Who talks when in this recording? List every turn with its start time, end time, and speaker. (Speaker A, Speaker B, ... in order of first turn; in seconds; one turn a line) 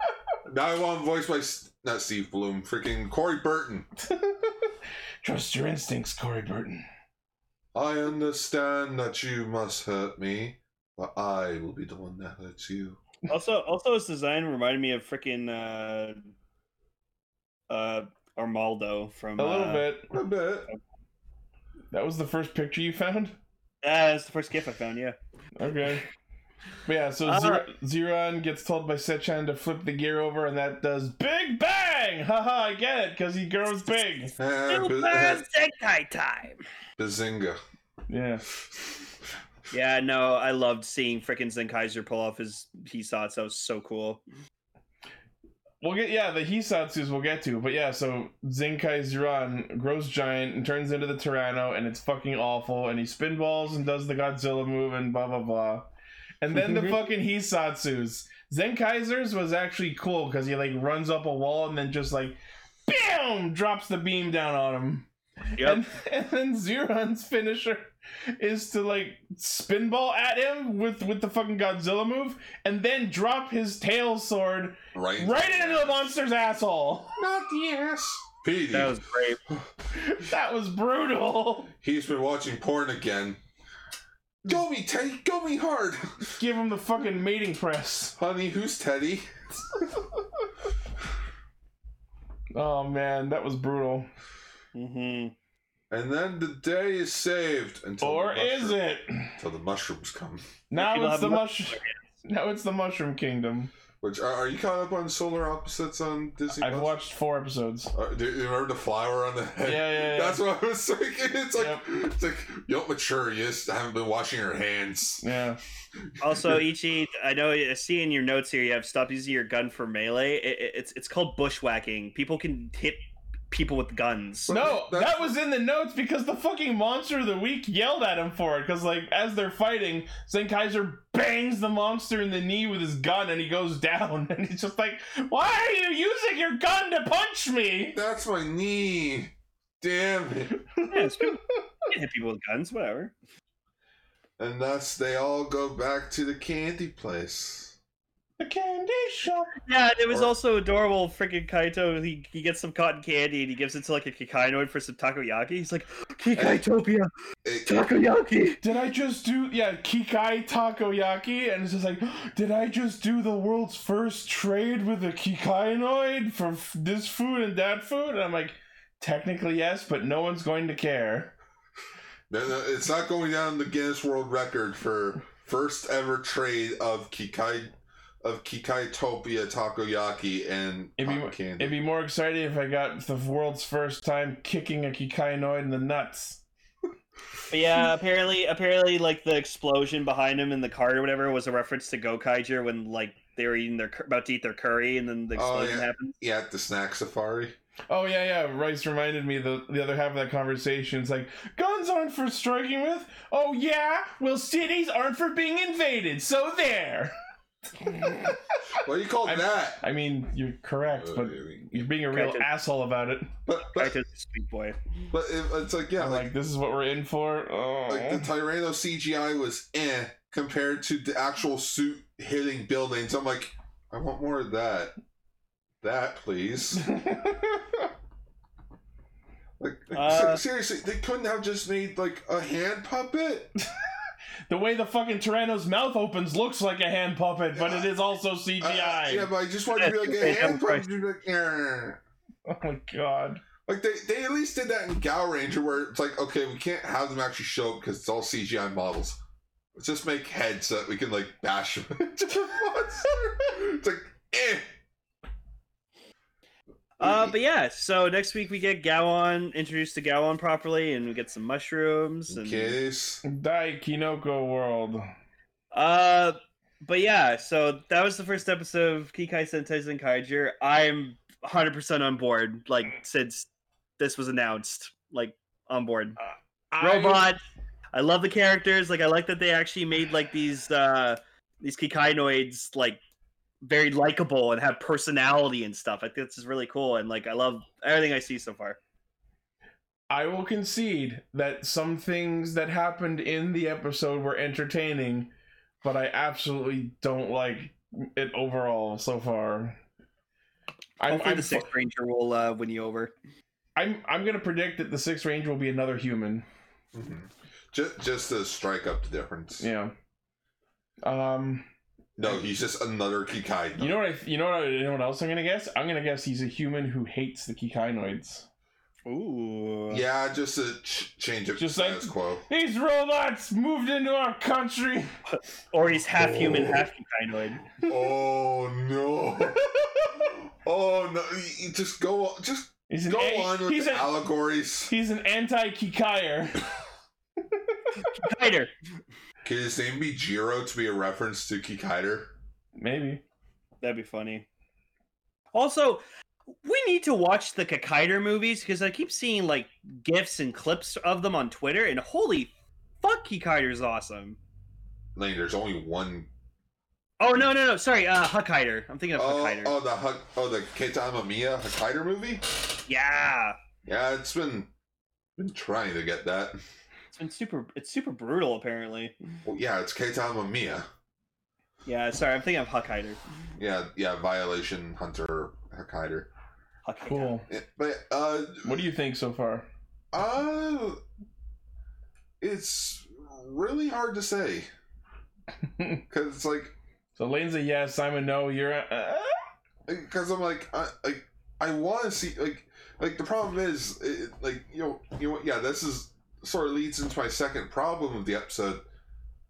Speaker A: 0.4-3.9
Speaker B: 4.1-6.8
Speaker A: 7.7-13.0
Speaker C: 13.3-16.3
Speaker C: 17.7-19.9
Speaker B: 19.4-20.1
Speaker A: 20.1-20.7
Speaker B: 21.9-23.4
Speaker C: 23.8-25.1
Speaker B: 25.6-26.0
Speaker B: 26.9-34.3
Speaker C: 27.2-27.6
Speaker A: 34.4-35.4
Speaker C: 34.7-36.6
Speaker A: 37.0-37.6
Speaker B: 38.1-38.4
Speaker C: 39.7-44.2
Speaker B: 45.8-55.9
Speaker B: 56.4-77.2
Speaker C: 56.5-57.0
Speaker A: 74.9-76.1
Speaker A: 77.2-79.0
Speaker C: 78.7-79.4
Speaker B: 79.9-81.7
Speaker A: 81.8-83.4
Speaker A: 84.4-86.4
Speaker B: 86.4-88.1
Speaker A: 88.2-89.3
Speaker B: 92.5-94.1
Speaker C: 94.7-95.3
Speaker A: 95.9-98.8
Speaker B: 98.0-99.4
Speaker A: 99.4-100.5
Speaker B: 100.7-103.7
Speaker C: 100.7-102.0
Speaker A: 104.0-107.0
Speaker B: 106.5-107.9
Speaker A: 107.9-115.2
Speaker B: 109.6-110.4
Speaker B: 111.5-111.8
Speaker B: 115.2-115.6
Speaker A: 116.0-116.6
Speaker C: 116.2-124.5
Speaker A: 124.5-125.3
Speaker B: 124.5-138.0
Speaker A: 137.9-140.6
Speaker B: 140.8-141.4
Speaker C: 140.9-143.1
Speaker A: 144.4-147.8
Speaker B: 148.4-149.6
Speaker C: 149.7-157.1
Speaker A: 156.3-156.6
Speaker A: 157.4-157.9
Speaker C: 157.7-158.6
Speaker B: 158.6-171.3
Speaker A: 172.3-181.8
Speaker B: 181.0-186.4
Speaker C: 187.5-196.1
Speaker A: 195.3-197.6
Speaker B: 197.9-207.1
Speaker B: 207.8-208.7
Speaker A: 208.7-209.8
Speaker B: 209.2-213.3
Speaker A: 210.9-211.9
Speaker C: 212.1-212.4
Speaker A: 213.4-213.9
Speaker C: 213.7-214.8
Speaker A: 215.1-216.3
Speaker B: 216.0-218.3
Speaker A: 217.9-224.9
Speaker A: 225.8-226.9
Speaker B: 226.8-227.9
Speaker A: 229.6-233.5
Speaker C: 229.9-230.4
Speaker B: 234.5-239.3
Speaker A: 237.5-237.9
Speaker A: 238.6-242.0
Speaker C: 239.7-240.9
Speaker B: 242.4-243.4
Speaker A: 243.7-249.2
Speaker A: 249.8-254.7
Speaker C: 257.0-262.8
Speaker A: 257.0-257.3
Speaker A: 262.3-263.2
Speaker B: 263.2-265.1
Speaker C: 265.7-273.5
Speaker C: 274.0-276.2
Speaker B: 276.2-277.3
Speaker C: 276.8-277.4
Speaker C: 277.9-283.0
Speaker C: 283.6-288.8
Speaker B: 290.1-299.8
Speaker B: 301.0-301.7
Speaker C: 301.1-303.1
Speaker B: 303.8-306.4
Speaker A: 306.9-309.7
Speaker B: 309.6-309.9
Speaker B: 311.0-311.7
Speaker A: 312.2-314.0
Speaker B: 313.8-318.4
Speaker C: 319.1-320.0
Speaker A: 319.9-322.4
Speaker B: 321.6-325.1
Speaker C: 325.7-327.8
Speaker A: 326.2-326.8
Speaker A: 327.8-334.9
Speaker B: 332.9-334.1
Speaker B: 334.9-336.7
Speaker B: 337.5-338.1
Speaker C: 338.1-338.7
Speaker A: 339.4-342.3
Speaker B: 342.8-343.2
Speaker C: 343.8-344.4
Speaker C: 345.5-346.0
Speaker C: 346.6-354.4
Speaker A: 355.1-356.3
Speaker C: 357.2-359.8
Speaker A: 359.1-362.4
Speaker C: 362.9-363.6
Speaker A: 363.9-364.7
Speaker A: 365.4-366.6
Speaker C: 367.1-369.1
Speaker A: 369.4-370.9
Speaker C: 371.8-373.2
Speaker A: 373.6-376.3
Speaker C: 376.8-377.4
Speaker B: 377.1-377.4
Speaker A: 377.5-378.8
Speaker B: 378.6-379.7
Speaker A: 380.1-381.0
Speaker A: 382.4-384.7
Speaker B: 385.7-386.0
Speaker A: 386.1-386.8
Speaker B: 387.2-389.4
Speaker A: 389.9-398.8